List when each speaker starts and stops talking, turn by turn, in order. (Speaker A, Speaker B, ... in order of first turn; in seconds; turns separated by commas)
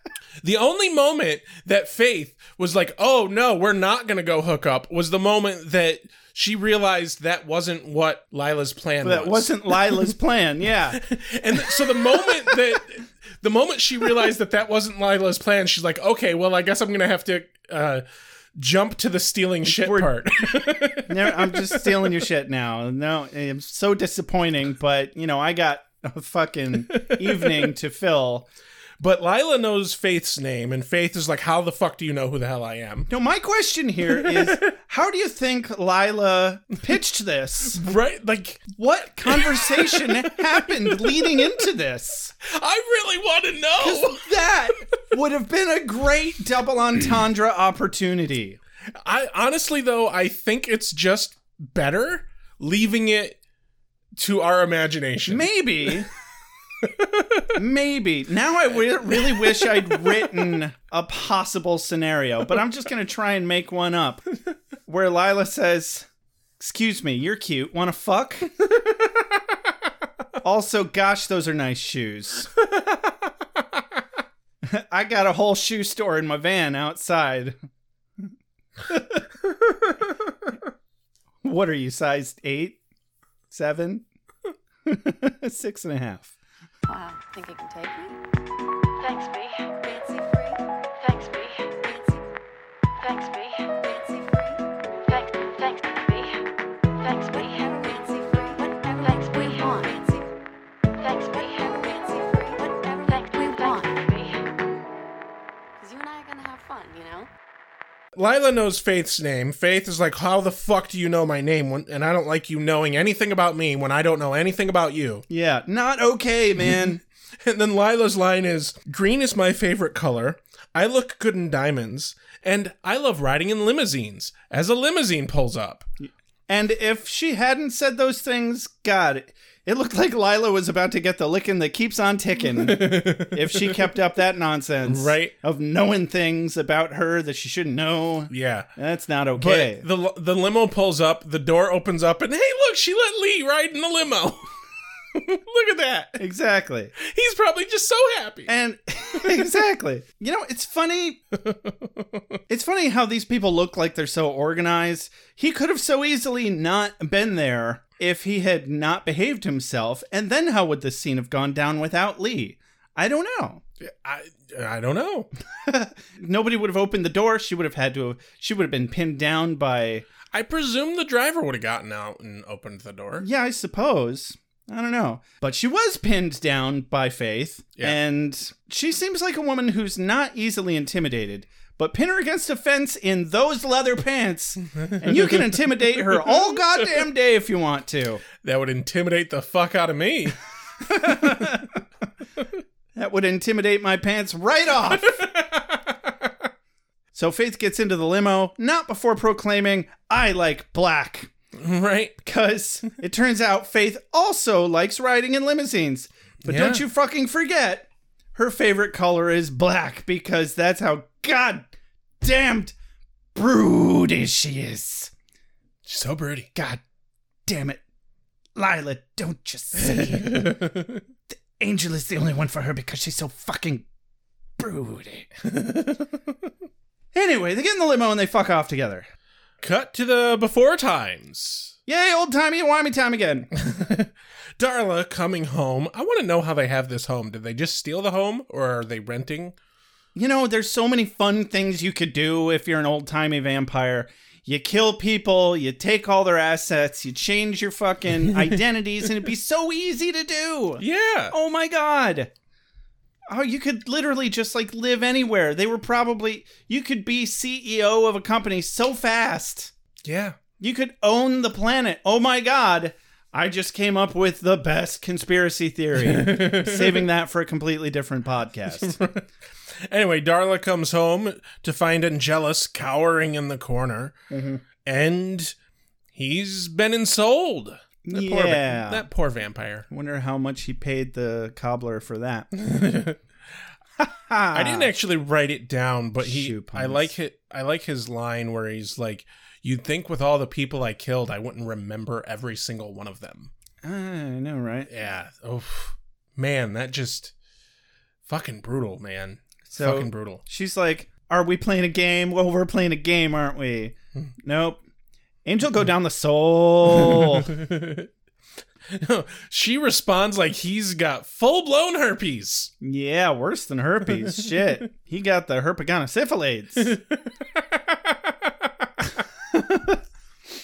Speaker A: 0.4-10.1, Speaker B: 9.0-11.0, Speaker A: 10.9-18.1, Speaker B: 11.6-12.6, Speaker A: 18.6-22.2, Speaker B: 19.6-28.5, Speaker A: 26.9-27.7, Speaker A: 29.0-33.1, Speaker B: 33.1-37.8, Speaker A: 34.1-34.7, Speaker A: 37.7-38.7, Speaker B: 38.8-42.3, Speaker A: 39.2-41.6, Speaker A: 42.4-44.3, Speaker B: 43.8-48.6, Speaker A: 49.0-53.4, Speaker A: 54.2-56.0, Speaker B: 55.3-56.1, Speaker A: 56.8-57.5, Speaker B: 57.5-64.2, Speaker A: 59.1-60.3, Speaker B: 64.9-66.1, Speaker B: 66.6-68.5, Speaker B: 70.4-72.5, Speaker A: 72.6-73.8, Speaker B: 74.6-77.6, Speaker B: 78.9-79.2, Speaker A: 79.4-80.5, Speaker B: 81.4-82.8, Speaker B: 83.5-84.0, Speaker B: 84.9-86.3, Speaker C: 86.9-88.2, Speaker C: 89.0-92.2, Speaker C: 93.0-96.5, Speaker C: 97.0-100.3, Speaker C: 101.0-104.5, Speaker C: 105.8-107.3, Speaker A: 108.1-115.2, Speaker B: 115.3-117.0, Speaker A: 117.4-125.9, Speaker B: 126.0-139.8, Speaker A: 132.4-133.9, Speaker A: 134.9-135.3, Speaker A: 138.3-138.7, Speaker A: 139.4-144.6, Speaker A: 145.1-146.2, Speaker B: 146.2-146.9, Speaker A: 147.0-148.5, Speaker B: 148.5-151.2, Speaker A: 149.1-149.5, Speaker A: 151.3-152.2, Speaker B: 152.5-163.6, Speaker A: 163.8-165.3, Speaker B: 165.6-170.1, Speaker A: 170.3-173.3, Speaker B: 173.2-188.2, Speaker A: 184.8-186.8, Speaker A: 188.4-191.6, Speaker B: 190.9-191.7, Speaker B: 192.9-195.2, Speaker A: 194.9-196.3, Speaker B: 197.1-201.3, Speaker A: 201.6-202.2, Speaker B: 202.2-211.7, Speaker A: 206.4-206.8, Speaker B: 212.2-212.7, Speaker B: 213.3-215.1, Speaker A: 215.9-216.5, Speaker B: 216.6-216.8, Speaker B: 217.4-217.8, Speaker B: 218.6-220.6, Speaker A: 219.8-221.0, Speaker B: 221.6-223.8, Speaker B: 224.6-225.3, Speaker A: 225.4-226.2, Speaker B: 227.1-229.1, Speaker A: 229.6-231.8, Speaker B: 231.9-233.5, Speaker A: 233.5-239.6, Speaker B: 240.1-252.3, Speaker A: 248.2-248.6, Speaker A: 250.8-251.3, Speaker B: 253.3-259.7, Speaker A: 260.0-260.4, Speaker B: 260.6-269.0, Speaker A: 266.0-267.1, Speaker A: 268.7-269.3, Speaker A: 269.9-274.2, Speaker B: 274.3-274.6, Speaker A: 274.9-275.5, Speaker A: 276.1-279.9, Speaker B: 278.1-279.1, Speaker B: 279.9-282.5, Speaker A: 282.5-283.2, Speaker B: 284.0-284.9, Speaker A: 284.5-293.5, Speaker B: 286.2-287.1, Speaker B: 293.8-294.9, Speaker A: 294.9-297.3, Speaker A: 298.3-300.4, Speaker B: 299.7-304.8, Speaker B: 305.4-307.5, Speaker A: 306.9-308.1, Speaker A: 308.9-312.7, Speaker B: 312.8-316.9, Speaker A: 314.2-314.7, Speaker A: 316.8-318.9, Speaker B: 319.5-320.0